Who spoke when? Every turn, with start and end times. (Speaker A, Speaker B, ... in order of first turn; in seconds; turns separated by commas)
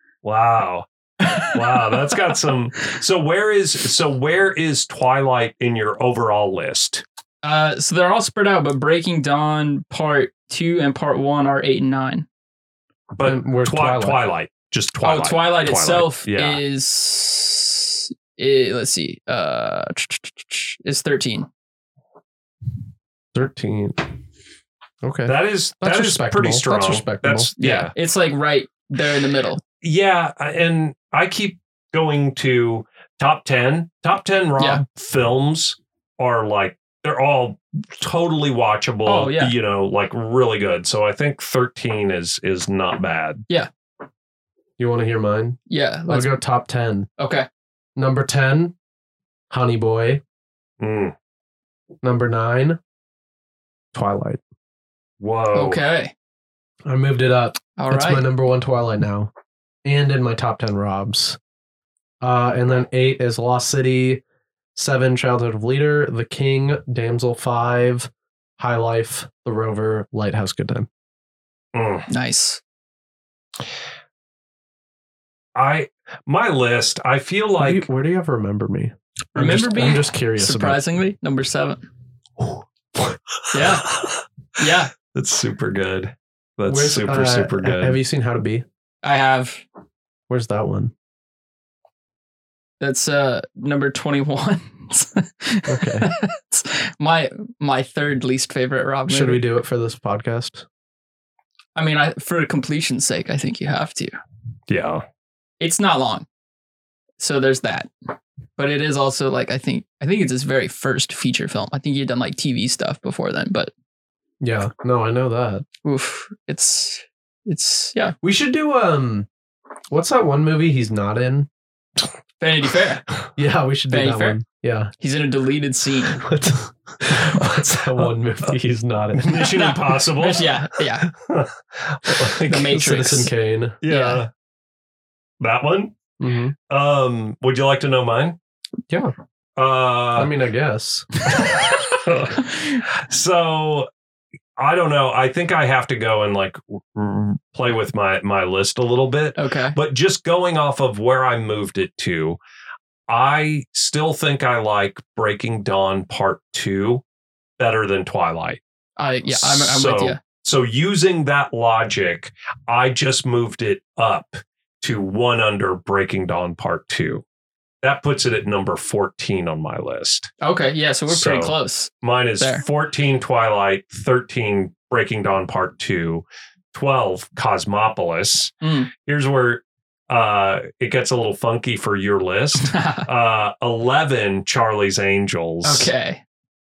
Speaker A: 0.2-7.0, Speaker B: 1.2-2.0, Speaker B: 7.4-12.2, Speaker A: 13.1-16.6, Speaker C: 13.2-14.2, Speaker B: 15.0-21.5, Speaker C: 23.3-24.1, Speaker C: 25.0-27.5, Speaker A: 25.2-27.9, Speaker B: 27.6-29.6, Speaker A: 29.8-43.4, Speaker B: 39.0-39.5, Speaker C: 44.8-47.1, Speaker B: 45.7-46.4, Speaker B: 47.2-47.5, Speaker C: 48.0-48.7, Speaker C: 49.5-50.2, Speaker A: 50.8-51.1, Speaker C: 52.0-52.8, Speaker C: 53.9-54.4, Speaker A: 55.2-55.8, Speaker B: 55.5-56.1, Speaker C: 56.9-59.3, Speaker B: 57.8-58.3, Speaker C: 59.8-61.4, Speaker C: 62.2-64.2, Speaker C: 64.8-70.9, Speaker A: 71.7-72.1, Speaker B: 72.1-72.6, Speaker A: 75.5-77.8, Speaker C: 77.6-80.8, Speaker B: 79.3-81.8, Speaker B: 83.5-83.9, Speaker A: 83.6-84.2, Speaker B: 84.6-84.9, Speaker A: 85.1-88.0, Speaker C: 86.7-88.6, Speaker B: 89.0-89.6, Speaker C: 90.3-90.9, Speaker B: 92.8-99.4, Speaker C: 95.7-96.1, Speaker C: 99.1-100.6, Speaker B: 101.8-104.2, Speaker A: 104.7-105.0, Speaker B: 105.6-106.2, Speaker B: 107.2-107.9, Speaker B: 108.6-113.7, Speaker C: 114.4-115.6, Speaker B: 115.8-118.1, Speaker C: 118.2-119.3, Speaker C: 119.9-121.5, Speaker B: 122.4-123.0, Speaker C: 123.3-124.9, Speaker B: 123.9-124.4, Speaker B: 125.0-126.2, Speaker C: 126.1-129.5, Speaker A: 129.1-130.5, Speaker B: 129.5-131.1, Speaker A: 131.1-132.7, Speaker B: 132.4-133.3, Speaker C: 132.4-133.8, Speaker A: 133.8-134.3, Speaker B: 133.9-134.2, Speaker A: 135.4-135.9, Speaker C: 136.2-136.5, Speaker A: 136.7-138.4, Speaker C: 138.9-139.1, Speaker A: 139.6-140.3, Speaker C: 140.1-141.2, Speaker A: 141.4-143.9, Speaker B: 142.5-142.8, Speaker A: 144.6-152.4, Speaker B: 149.3-149.8, Speaker A: 153.1-157.0, Speaker A: 157.6-158.6, Speaker B: 159.0-160.2, Speaker A: 159.3-167.2, Speaker A: 167.8-170.3, Speaker B: 170.4-172.6, Speaker A: 171.1-178.5, Speaker B: 178.6-178.9, Speaker A: 179.0-185.9, Speaker B: 182.7-183.1, Speaker B: 185.6-186.2